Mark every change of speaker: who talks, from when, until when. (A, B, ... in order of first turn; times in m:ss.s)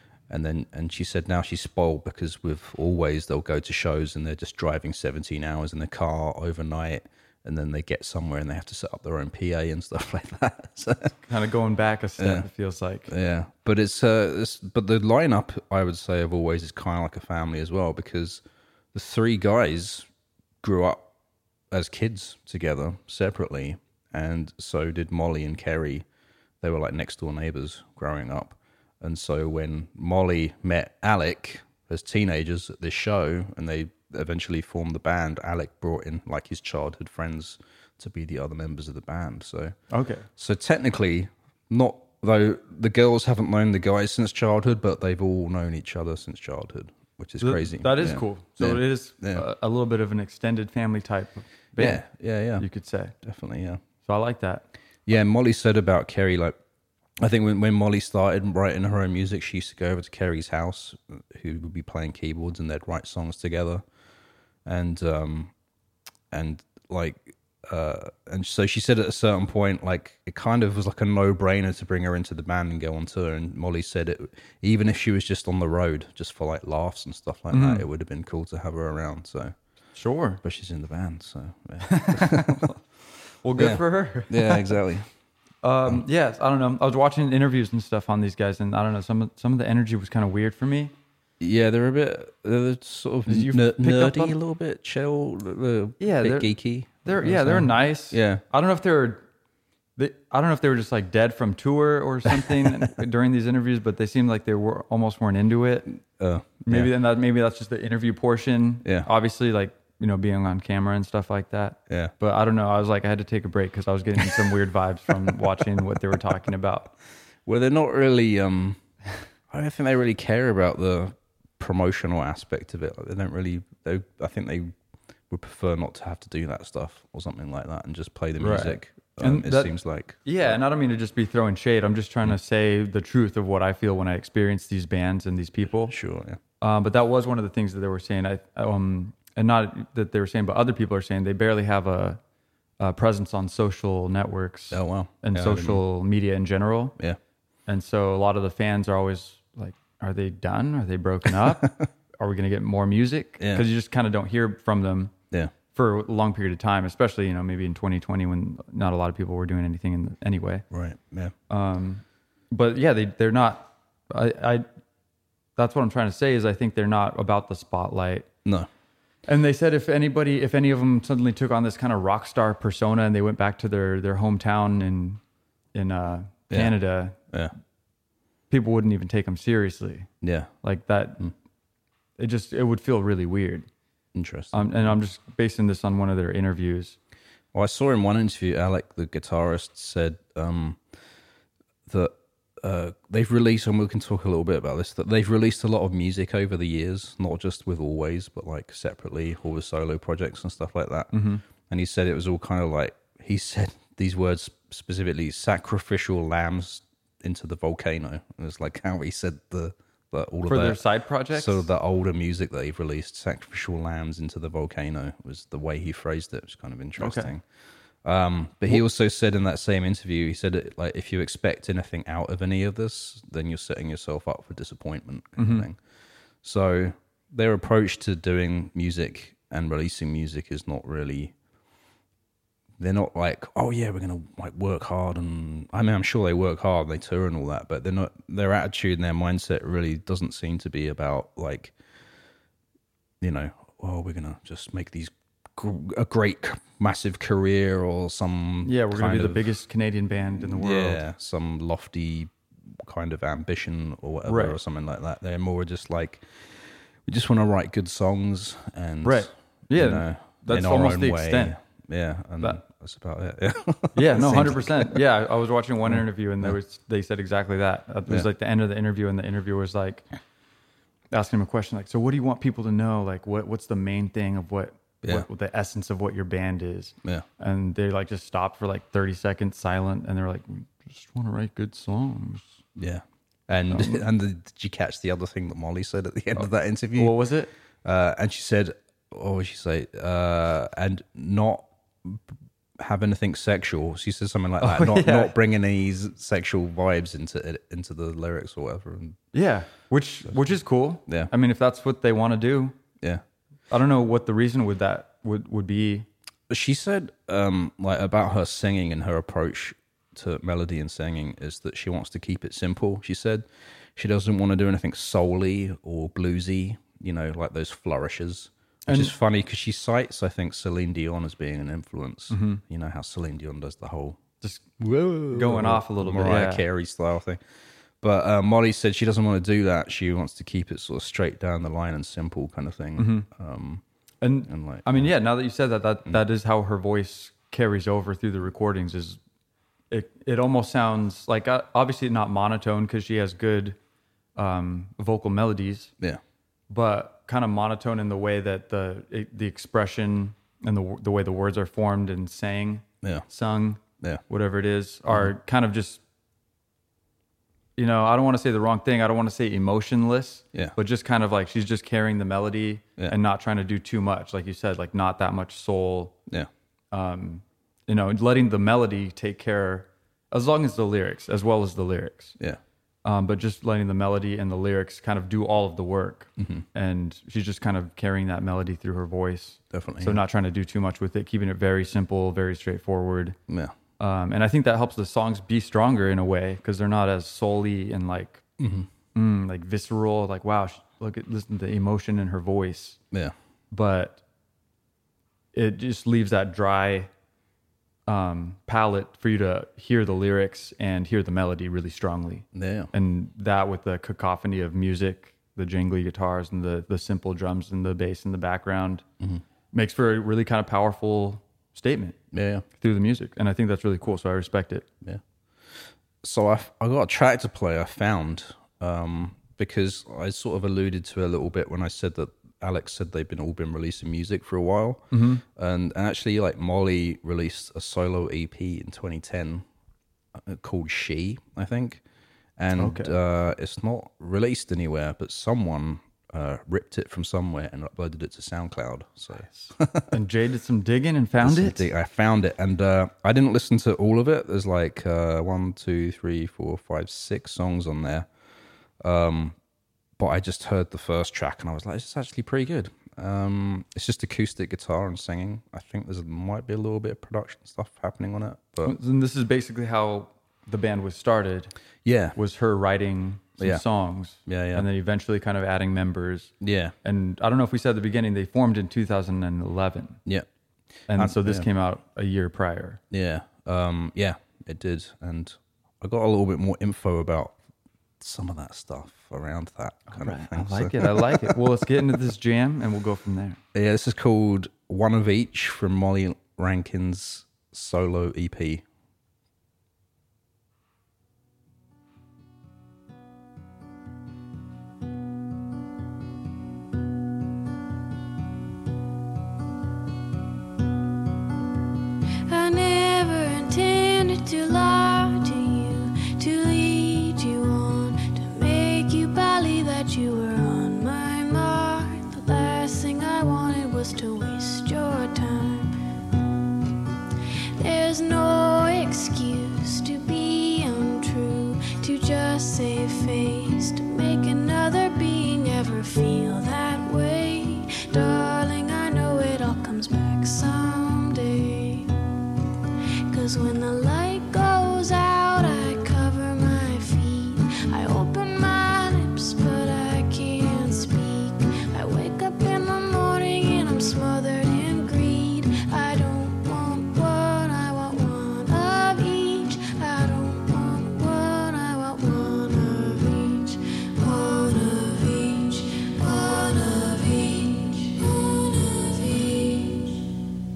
0:00.3-0:11.2 A
0:11.3-0:13.1 B
0:12.2-0:12.4 A
0:13.1-0:18.4 A
0:18.9-0:20.0 A
0:20.6-0:21.0 A
0:21.7-0:26.0 A
0:26.6-0:39.8 A
0:39.9-0:40.3 B
0:40.4-0:49.4 A
0:47.4-0:52.0 B
0:51.8-0:52.6 A
0:52.6-0:53.1 B
0:53.2-0:53.8 A
0:54.0-0:54.6 B
0:55.0-0:56.6 A
0:57.2-1:03.8 A
1:04.6-1:05.5 A
1:06.3-1:19.5 A
1:17.5-1:17.8 B
1:19.9-1:20.4 B
1:20.4-1:22.7 A
1:21.8-1:22.8 B
1:23.4-1:24.8 B
1:23.6-1:25.1 A
1:25.6-1:30.9 B
1:31.4-1:38.4 A
1:33.2-1:34.4 B
1:36.0-1:39.2 B
1:40.0-1:45.9 B
1:46.1-1:46.9 A
1:46.6-1:56.9 B
1:48.8-1:49.1 A
1:51.9-1:52.1 A
1:57.4-1:58.8 A
1:59.5-2:04.7 A
2:05.3-2:10.2 A
2:08.4-2:09.7 B
2:10.2-2:15.9 B
2:15.9-2:16.4 A
2:16.6-2:22.2 B
2:22.8-2:27.0 B
2:24.7-2:25.8 A
2:27.7-2:35.1 B
2:31.4-2:31.9 A
2:33.4-2:33.7 A
2:35.7-2:40.6 B
2:40.7-2:41.3 A
2:41.5-2:44.6 B
2:45.6-2:48.3 B
2:49.3-2:55.2 B
2:55.7-2:57.2 B
2:56.5-2:56.7 A
2:58.5-3:00.1 B
3:00.2-3:00.5 A
3:00.6-3:01.3 B
3:02.2-3:03.7 B
3:04.1-3:04.7 A
3:04.5-3:07.0 B
3:07.5-3:10.8 A
3:11.9-3:21.1 A
3:21.1-3:21.4 B
3:21.7-3:30.8 A
3:30.4-3:31.6 B
3:31.3-3:37.4 A
3:37.0-3:37.3 B
3:38.0-3:45.8 A
3:45.4-3:45.7 B
3:46.4-3:51.3 A
3:52.8-4:01.7 A
4:03.2-4:09.4 A
4:08.6-4:11.0 B
4:10.4-4:25.0 A
4:14.2-4:14.6 B
4:19.0-4:21.6 B
4:23.9-4:30.0 B
4:31.1-4:42.6 B
4:42.8-4:47.1 A
4:43.7-4:44.0 B
4:46.3-4:47.5 B
4:47.8-4:52.2 A
4:52.8-4:59.2 A
4:54.6-4:55.3 B
4:59.3-5:02.7 B
5:03.7-5:06.1 B
5:06.5-5:24.2 A
5:18.9-5:19.1 B
5:22.3-5:22.6 B
5:24.4-5:24.6 B
5:24.8-5:27.4 A
5:25.3-5:26.6 B
5:28.0-5:33.8 A
5:33.0-5:33.3 B
5:34.2-5:39.2 B
5:34.5-5:35.1 A
5:39.9-5:43.8 B
5:44.4-5:45.9 B
5:46.7-5:56.0 B
5:53.0-5:53.3 A
5:57.8-6:06.2 B
6:06.9-6:12.4 B
6:13.0-6:23.4 B
6:16.4-6:16.6 A
6:19.7-6:20.2 A
6:23.5-6:23.7 A
6:24.0-6:28.4 B
6:28.6-6:28.9 A
6:29.1-6:33.0 B
6:33.7-6:34.2 B
6:35.5-6:37.1 B
6:38.1-6:49.0 B
6:42.5-6:42.9 A
6:49.7-6:52.2 B
6:52.3-6:52.6 A
6:52.7-6:54.8 B
6:55.0-7:09.6 A
7:05.1-7:05.4 B
7:10.3-7:12.0 A
7:12.6-7:20.1 A
7:12.8-7:13.1 B
7:19.4-7:21.9 B
7:21.4-7:28.3 A
7:29.0-7:29.6 A
7:30.2-7:38.9 A
7:38.8-7:41.7 B
7:42.0-7:42.4 A
7:42.3-7:50.2 B
7:44.4-7:44.9 A
7:46.6-7:46.9 A
7:51.1-7:53.0 B
7:51.1-7:51.6 A
7:53.1-7:57.6 A
7:58.2-8:01.6 A
8:00.1-8:03.6 B
8:03.7-8:08.8 A
8:22.5-8:36.0 C
8:37.8-8:52.1 C
8:53.3-9:20.2 C